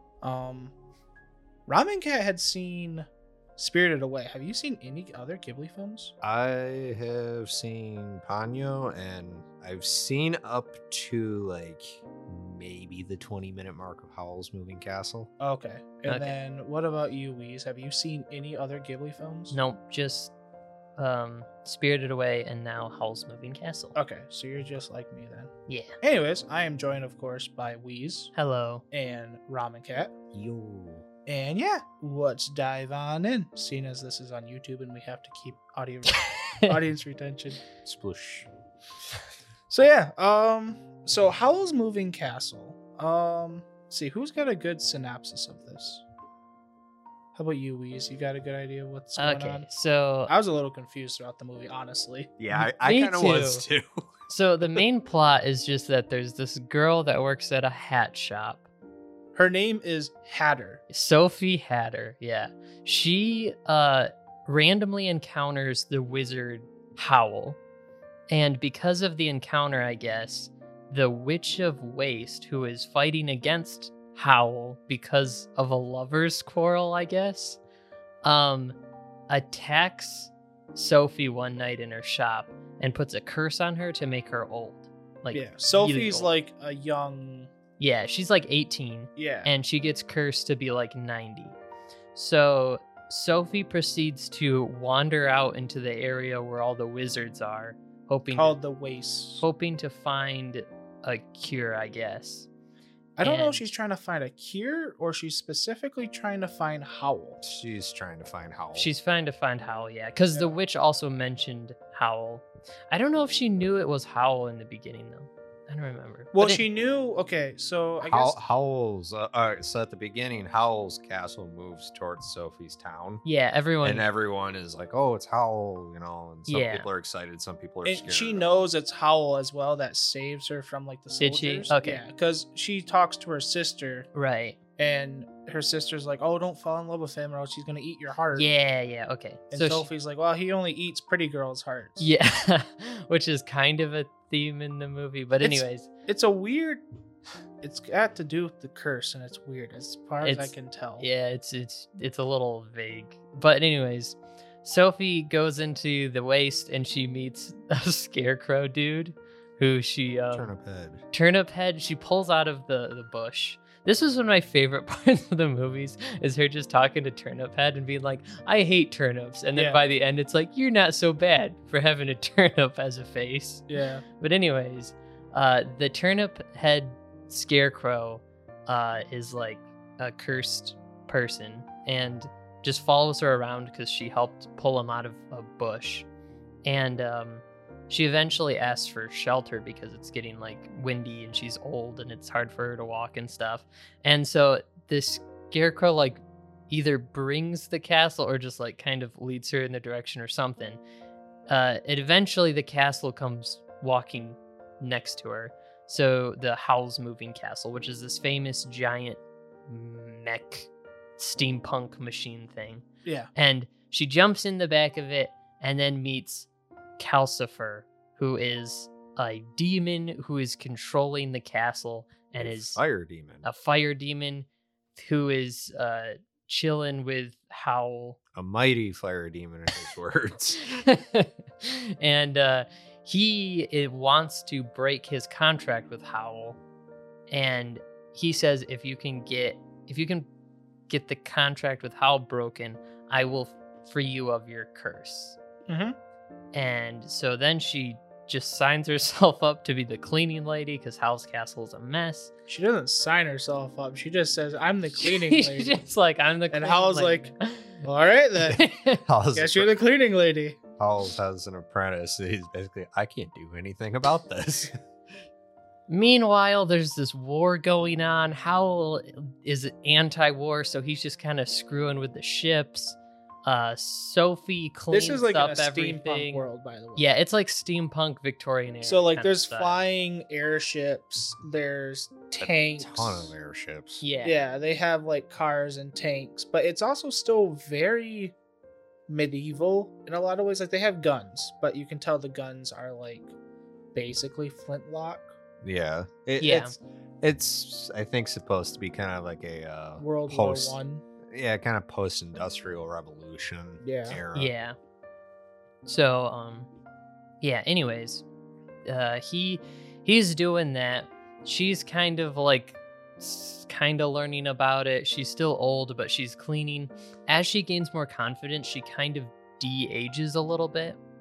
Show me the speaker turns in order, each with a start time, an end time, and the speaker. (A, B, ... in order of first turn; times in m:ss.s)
0:00.2-0:00.7 A
0:01.7-0:06.1 A
0:06.2-0:15.3 B
0:15.4-0:19.5 A
0:16.0-0:16.3 C
0:19.5-0:20.3 C
0:21.0-0:24.0 C
0:23.9-0:25.5 A
0:25.7-0:25.9 C
0:26.0-0:28.3 A
0:28.3-0:28.8 C
0:28.9-0:30.1 A
0:30.3-0:31.0 B
0:31.2-0:37.6 A
0:36.4-0:36.8 C
0:37.8-0:38.5 B
0:39.7-0:46.0 A
0:47.3-0:49.7 A
0:49.2-0:50.3 C
0:50.3-0:52.3 A
0:52.4-0:54.0 B
0:52.5-0:53.6 C
0:54.3-0:58.6 C
0:59.3-1:00.8 A
1:00.9-1:07.6 C
1:08.3-1:17.6 C
1:18.2-1:18.8 C
1:19.3-1:26.3 C
1:25.3-1:27.5 A
1:27.8-1:31.6 C
1:29.2-1:29.5 A
1:32.1-1:38.6 C
1:38.3-1:39.4 A
1:39.4-1:42.5 C
1:43.2-1:47.4 A
1:43.2-1:43.6 C
1:47.4-1:48.9 B
1:48.7-1:56.6 C
1:56.3-1:58.4 A
1:58.0-2:03.2 B
2:03.2-2:04.1 C
2:03.8-2:08.5 B
2:06.5-2:06.9 C
2:07.8-2:14.1 A
2:11.2-2:12.0 C
2:14.1-2:14.6 C
2:14.8-2:18.5 A
2:18.4-2:19.9 C
2:19.5-2:22.1 A
2:22.0-2:25.9 C
2:25.4-2:26.8 A
2:27.6-2:31.0 A
2:30.2-2:40.5 C
2:40.3-2:41.0 B
2:41.1-2:53.6 C
2:49.5-2:49.8 A
2:53.7-2:54.0 A
2:54.2-3:06.0 C
3:06.6-3:20.8 C
3:21.5-3:36.5 C
3:33.0-3:33.3 A
3:37.0-3:42.8 C
3:42.4-3:43.4 B
3:43.4-3:48.2 C
3:48.3-3:50.8 B
3:50.8-3:56.6 C
3:57.3-4:00.3 C
4:00.9-4:05.4 C
4:05.7-4:06.0 A
4:06.5-4:12.3 C
4:12.5-4:15.8 A
4:15.0-4:17.8 C
4:16.5-4:17.3 A
4:17.8-4:18.6 A
4:18.5-4:19.7 B
4:18.5-4:19.0 C
4:19.3-4:20.6 A
4:20.8-4:24.8 B
4:25.9-4:36.4 C
4:34.9-4:37.0 A
4:37.0-4:39.8 C
4:38.8-4:43.3 A
4:42.4-4:44.0 B
4:44.0-4:44.3 C
4:44.2-4:48.3 A
4:49.1-4:53.3 A
4:53.9-4:55.3 A
4:55.6-5:00.8 B
4:56.4-4:56.8 C
5:00.0-5:01.0 A
5:01.3-5:04.5 B
5:03.8-5:04.2 A
5:04.3-5:04.7 C
5:05.8-5:06.7 C
5:07.4-5:08.2 C
5:08.8-5:21.0 C